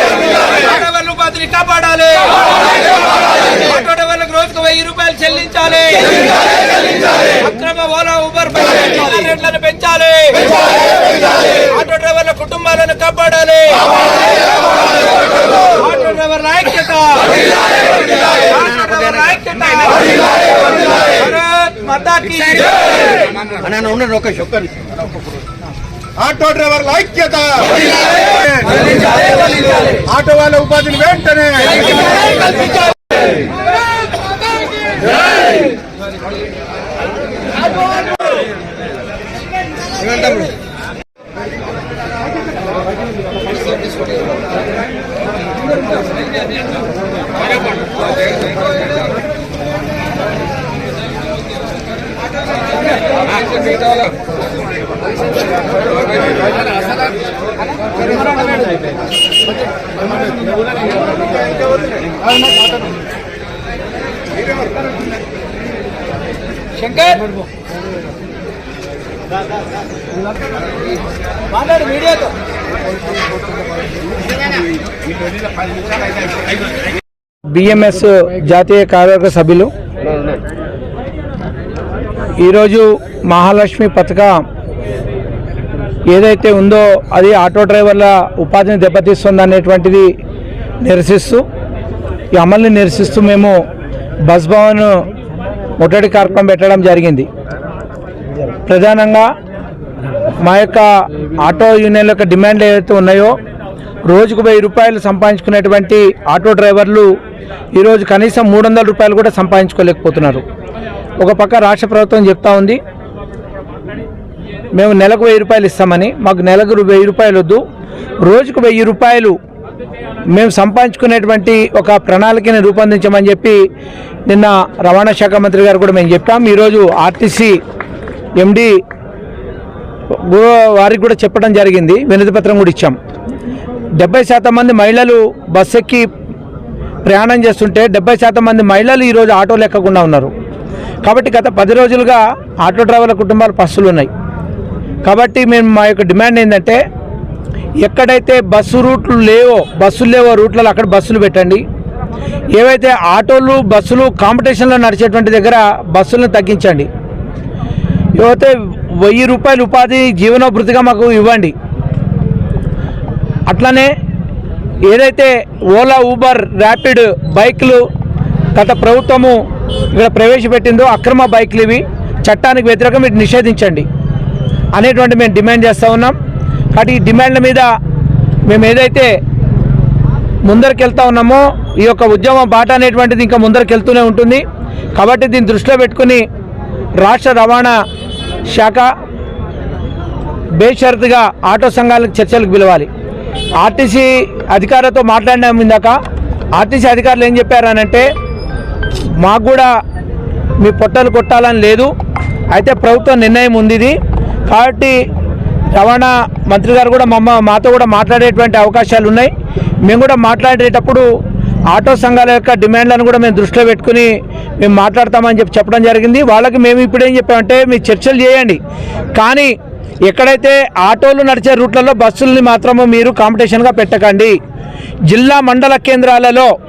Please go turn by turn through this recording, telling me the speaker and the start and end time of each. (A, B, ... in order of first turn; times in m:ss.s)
0:00.6-0:02.6 A
0:00.8-0:02.2 B
0:03.6-0:06.3 A
0:03.9-0:05.8 B
0:07.4-0:10.5 A
0:07.4-0:10.3 B
0:11.7-0:13.9 A
0:11.7-0:13.6 B
0:15.7-0:17.4 A
0:15.9-0:17.1 B
0:18.4-0:20.1 A
0:19.2-0:19.6 B
0:21.1-0:22.8 A
0:21.2-0:22.4 B
0:23.6-0:24.5 C
0:26.2-0:28.7 C
0:29.9-0:32.0 C
1:06.8-1:07.3 A
1:11.6-1:12.3 A
1:11.8-1:12.1 B
1:17.5-1:19.7 B
1:22.4-1:24.4 B
1:26.1-1:30.1 B
1:30.8-1:31.4 B
1:32.3-1:33.6 B
1:34.2-1:35.0 B
1:35.8-1:37.3 B
1:38.7-1:39.3 B
1:40.4-1:40.9 B
1:41.4-1:43.4 B
1:44.1-1:47.1 B
1:47.7-1:50.4 B
1:51.2-1:52.8 B
1:54.8-1:57.6 B
1:58.2-1:59.4 B
2:00.3-2:03.6 B
2:04.3-2:07.6 B
2:08.4-2:08.7 B
2:10.1-2:13.0 B
2:14.0-2:16.1 B
2:17.1-2:20.3 B
2:21.0-2:24.1 B
2:25.0-2:26.8 B
2:27.8-2:31.6 B
2:32.5-2:36.9 B
2:38.2-2:41.5 B
2:43.5-2:43.9 B
2:44.9-2:47.8 B
2:48.5-2:49.4 B
2:49.9-2:53.8 B
2:54.7-2:56.1 B
2:56.7-2:57.7 B
2:58.5-2:59.1 B
3:00.5-3:04.4 B
3:04.9-3:06.2 B
3:07.0-3:07.8 B
3:08.5-3:08.9 B
3:10.6-3:12.9 B
3:13.6-3:16.0 B
3:16.6-3:18.0 B
3:19.2-3:19.7 B
3:20.6-3:21.9 B
3:22.5-3:24.0 B
3:24.5-3:25.0 B
3:25.7-3:29.3 B
3:29.8-3:31.1 B
3:31.7-3:38.6 B
3:39.1-3:39.5 B
3:40.1-3:44.4 B
3:45.1-3:46.5 B